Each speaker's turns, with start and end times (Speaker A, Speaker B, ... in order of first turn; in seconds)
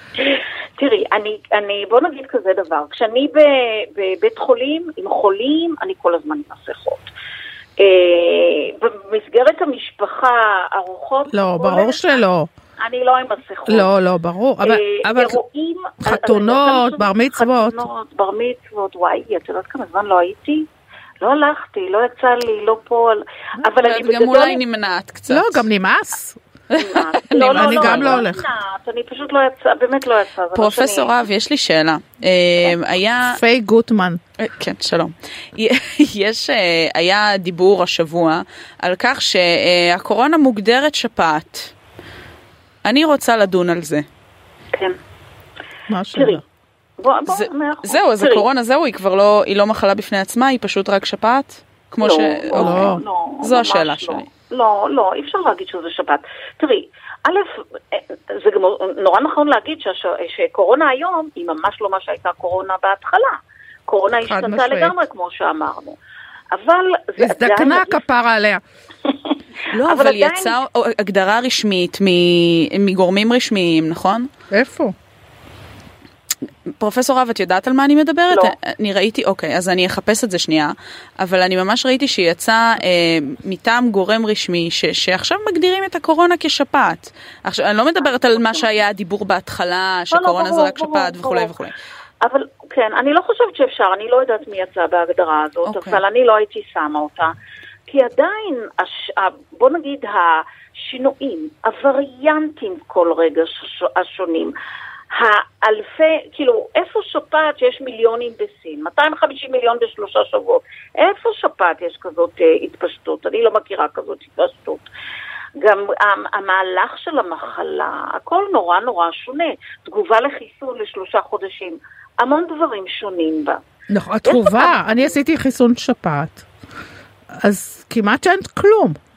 Speaker A: 0.2-7.1, 7.8-12.2, 12.8-13.9, 14.6-20.6, 21.2-24.6, 26.8-31.1, 46.1-46.4, 47.0-48.5, 52.0-66.0, 66.5-68.0, 69.0-70.6, 78.3-78.5, 88.0-88.7, 90.1-91.5, 92.2-97.3, 97.9-104.5, 105.1-114.9, 115.6-123.6, 124.2-125.1
Speaker B: 11.3-12.5, 13.7-15.4, 16.0-17.8, 25.3-26.4, 27.5-28.4, 33.2-34.2, 45.9-46.4, 52.5-53.0, 64.2-65.0, 67.2-68.6, 74.5-74.9, 123.9-126.4, 127.4-128.9
Speaker C: 23.8-25.6, 26.7-28.2, 30.5-33.4, 34.4-41.7, 42.8-44.0, 47.3-54.2, 69.7-74.3, 76.8-91.7, 95.6-96.0